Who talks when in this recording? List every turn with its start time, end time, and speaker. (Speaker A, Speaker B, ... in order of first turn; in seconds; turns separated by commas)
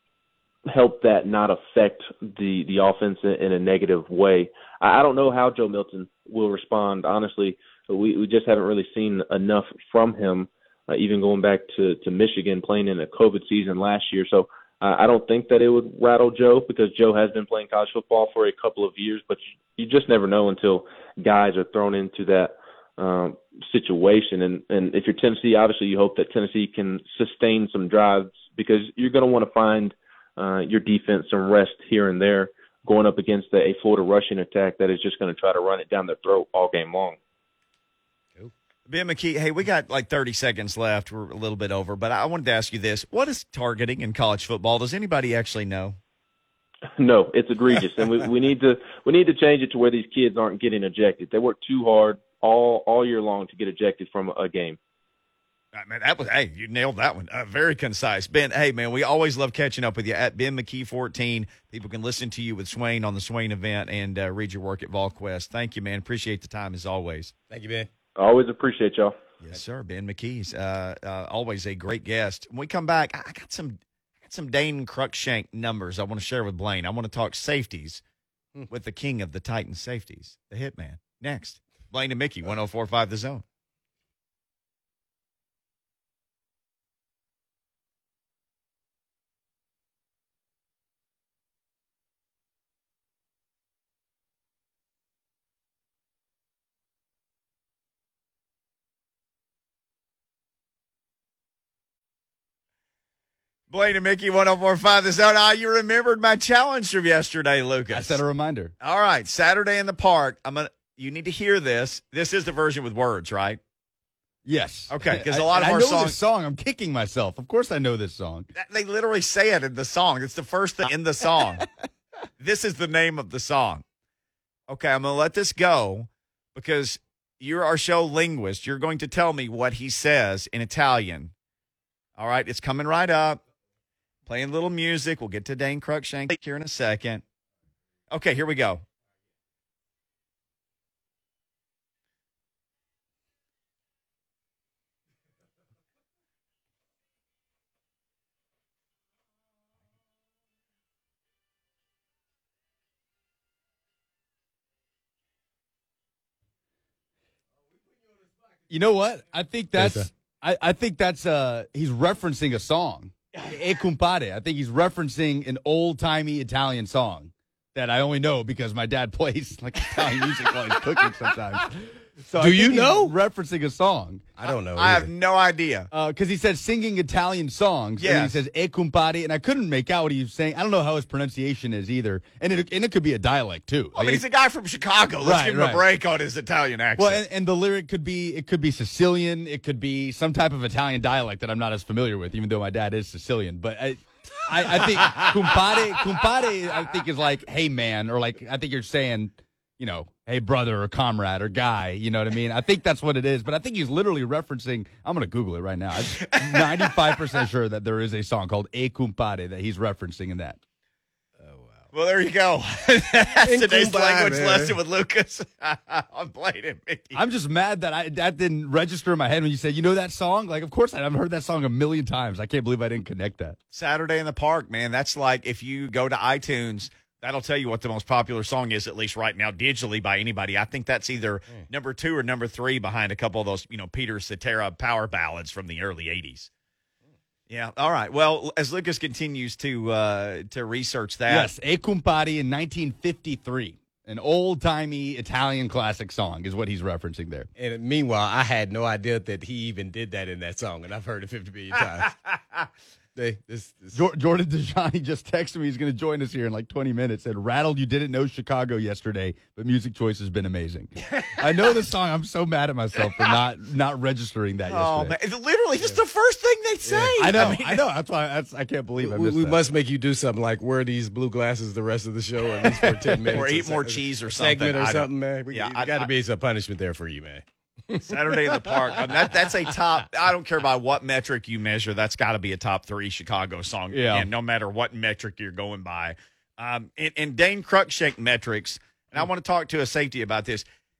Speaker A: 0.7-37.2, Speaker B: 38.9-46.0, Speaker A: 47.0-54.8, Speaker B: 55.7-67.3, Speaker C: 67.5-67.9, Speaker A: 68.2-69.2, Speaker B: 69.4-78.0, Speaker B: 78.7-83.4, Speaker B: 103.7-108.2, Speaker D: 107.9-108.7, Speaker B: 108.8-113.6, Speaker D: 114.5-118.5, Speaker B: 114.9-116.2, Speaker B: 118.5-121.7, Speaker B: 122.4-123.8, Speaker B: 124.7-131.3, Speaker B: 132.2-133.4, Speaker B: 134.3-137.2, Speaker B: 138.1-138.8, Speaker D: 158.7-174.3, Speaker C: 159.8-160.1, Speaker C: 172.4-173.1, Speaker C: 174.4-175.1, Speaker B: 174.8-175.9, Speaker D: 175.9-184.2, Speaker B: 178.0-178.3, Speaker B: 183.9-187.2, Speaker D: 185.2-185.8, Speaker D: 187.0-210.6, Speaker B: 194.7-196.1, Speaker B: 206.2-207.2, Speaker C: 211.4-211.9, Speaker B: 211.9-217.2, Speaker C: 213.2-214.8, Speaker D: 217.1-223.6, Speaker B: 223.7-236.5, Speaker B: 237.5-241.5, Speaker D: 241.3-247.5, Speaker C: 247.6-252.2, Speaker C: 253.2-254.0, Speaker D: 253.9-265.1, Speaker C: 261.1-261.4, Speaker B: 264.7-267.8, Speaker C: 266.9-267.4, Speaker D: 267.2-269.6, Speaker C: 269.0-279.7, Speaker B: 273.3-276.1, Speaker B: 278.0-290.6, Speaker D: 283.9-284.3